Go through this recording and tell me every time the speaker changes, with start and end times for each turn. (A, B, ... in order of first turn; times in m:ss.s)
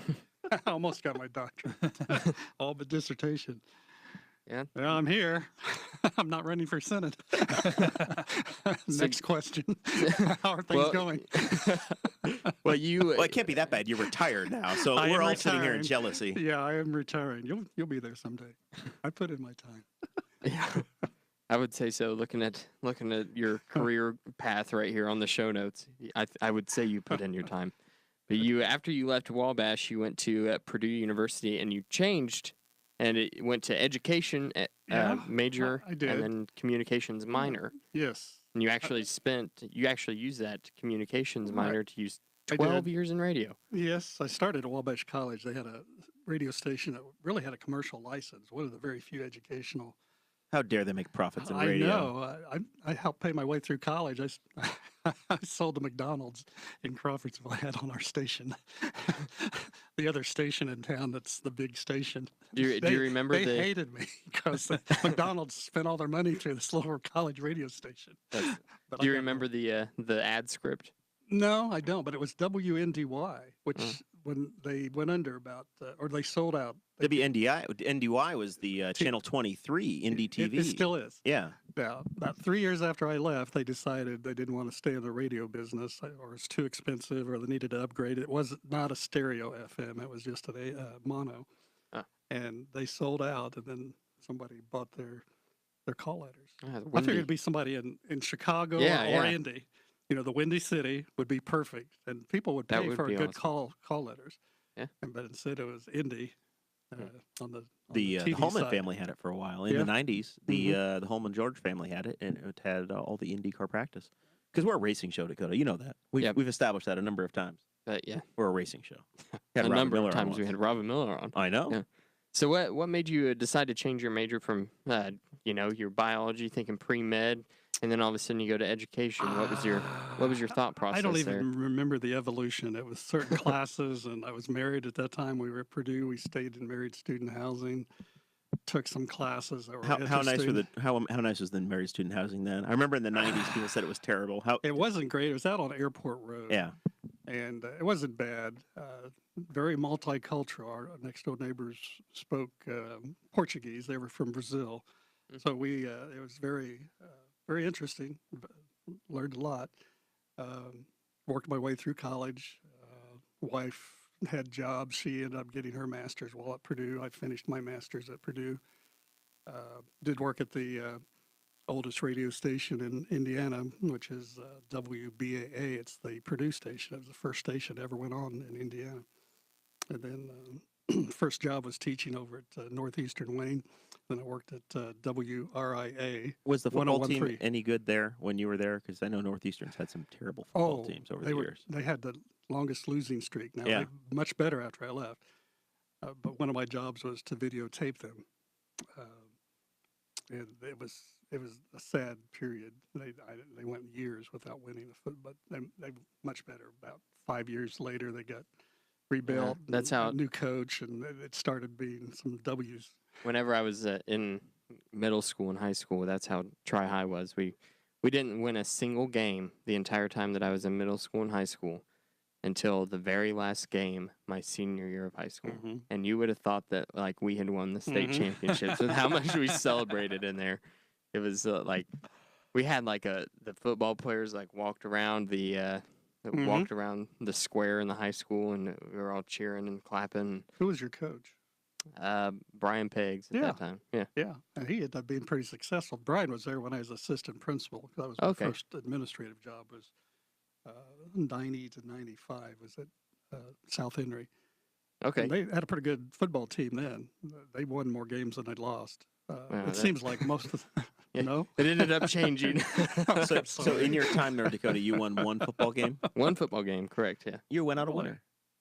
0:00.5-0:03.6 A
0:04.8-0:11.8 A
0:08.9-0:09.2 B
0:10.7-0:13.7 B
0:13.1-0:16.4 C
0:14.9-0:19.9 A
0:20.4-0:20.9 B
0:21.5-0:27.7 B
0:28.3-0:37.8 B
0:34.9-0:36.3 A
0:37.5-0:38.9 A
0:38.5-0:43.6 B
0:41.5-0:41.8 A
0:42.5-0:42.9 A
0:43.7-0:50.0 A
0:50.5-0:52.1 C
0:51.4-1:09.5 A
1:02.6-1:03.7 B
1:08.3-1:10.9 B
1:11.3-1:17.3 A
1:17.0-1:21.6 C
1:20.1-1:31.5 A
1:32.3-1:35.2 A
1:35.9-1:44.4 A
1:36.6-1:37.3 B
1:38.8-1:39.4 B
1:42.7-1:43.5 B
1:45.0-1:46.4 A
1:46.9-1:48.9 A
1:47.9-1:57.6 C
1:50.5-1:50.8 A
1:57.9-1:58.2 B
1:58.4-1:59.0 C
1:59.6-2:00.5 C
1:59.6-2:11.5 B
2:01.4-2:01.8 C
2:09.2-2:17.9 A
2:18.7-2:20.6 A
2:19.8-2:24.6 C
2:24.6-2:26.7 A
2:27.3-2:34.8 A
2:35.4-2:38.5 A
2:39.1-2:39.7 A
2:40.4-2:48.6 A
2:49.5-2:51.0 A
2:51.7-2:59.0 A
2:59.9-3:07.4 A
3:06.5-3:11.6 C
3:10.5-3:15.2 A
3:16.0-3:18.2 A
3:19.0-3:19.3 A
3:20.3-3:28.5 A
3:29.1-3:33.0 A
3:29.3-3:30.2 B
3:33.2-3:41.8 B
3:42.4-3:50.6 B
3:45.4-3:45.8 A
3:47.9-3:48.8 A
3:51.1-3:51.9 B
3:52.5-4:00.5 B
3:56.3-3:56.7 A
4:00.6-4:01.3 A
4:02.0-4:04.1 B
4:03.3-4:03.6 A
4:04.2-4:09.9 A
4:08.2-4:08.6 B
4:10.7-4:14.3 A
4:15.0-4:15.3 B
4:15.2-4:24.7 A
4:19.5-4:20.3 B
4:21.2-4:23.9 B
4:23.2-4:26.0 C
4:26.1-4:27.4 B
4:27.5-4:28.2 C
4:27.8-4:28.2 A